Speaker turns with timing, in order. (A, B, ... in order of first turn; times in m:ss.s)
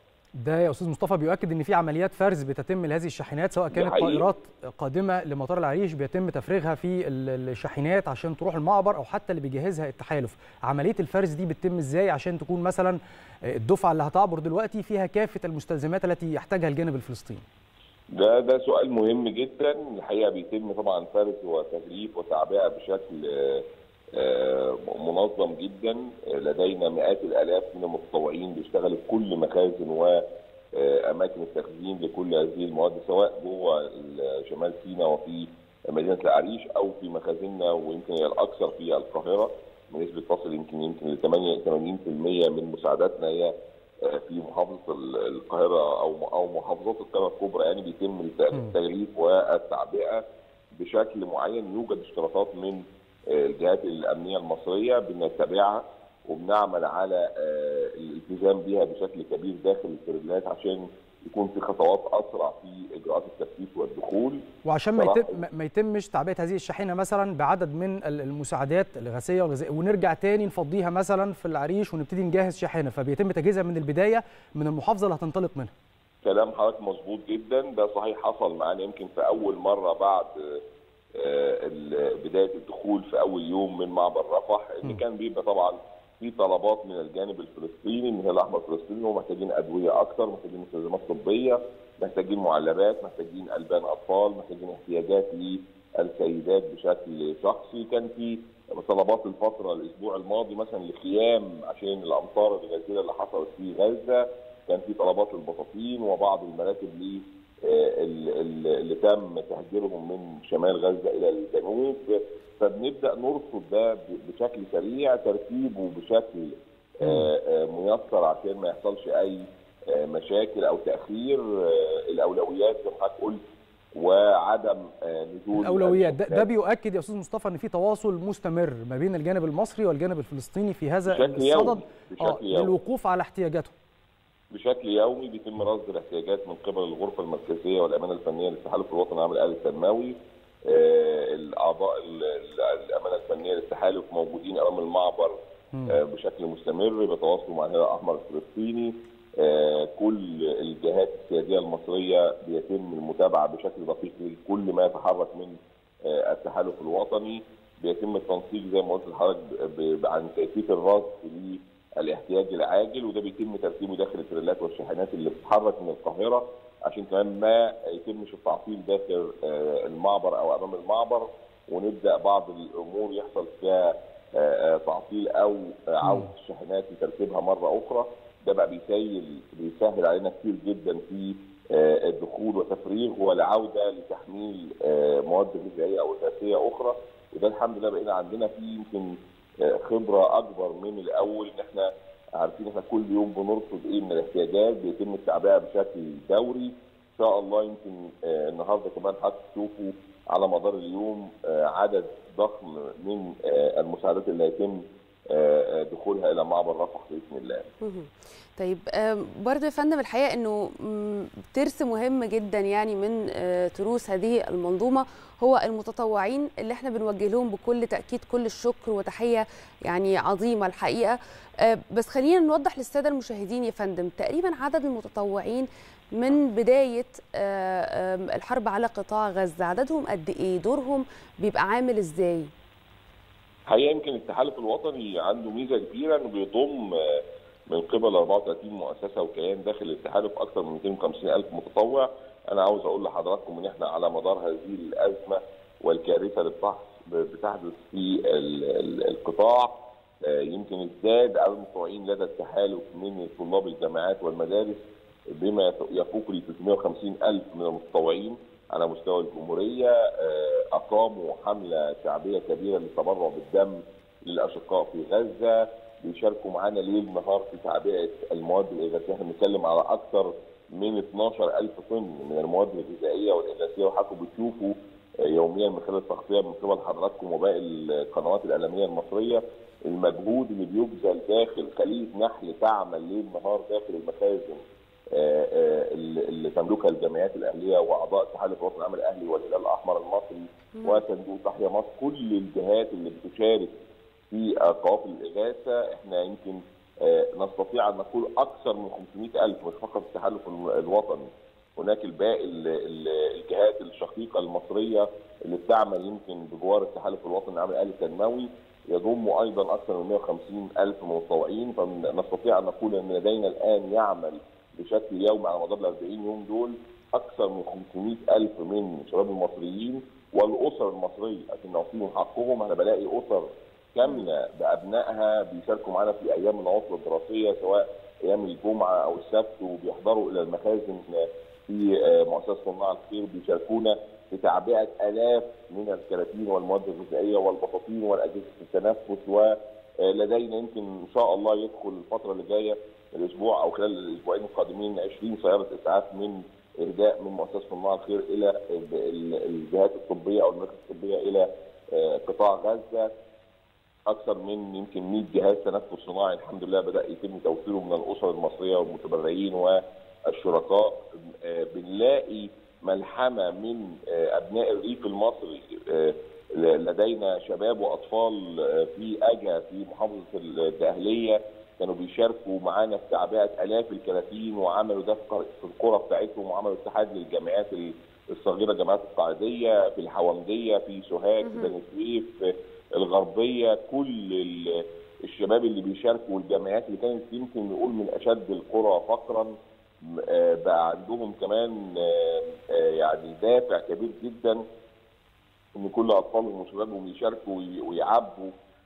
0:00.4-0:13.0 A
0:03.7-0:04.2 B
0:13.5-0:17.4 A
0:18.1-0:23.6 B
0:24.2-0:30.2 B
0:30.7-0:43.5 B
0:44.0-0:50.2 B
0:50.8-1:04.4 B
1:04.6-1:15.7 A
1:04.9-1:05.3 B
1:16.2-1:20.6 B
1:21.2-2:03.4 B
1:57.0-1:57.3 A
2:03.9-2:06.4 B
2:05.6-2:13.7 A
2:11.1-2:12.7 B
2:14.5-2:20.2 B
2:20.7-3:27.7 B
2:56.0-2:56.3 A
3:27.8-3:52.5 C
3:53.7-3:57.2 B
3:57.7-4:44.6 B
4:45.1-4:53.7 B
4:50.8-4:51.0 C
4:54.3-5:53.1 B
5:54.1-5:59.8 B
6:00.3-6:22.3 B
6:21.4-6:21.7 C
6:22.9-6:29.5 B
6:30.1-6:34.6 B
6:35.7-6:38.5 B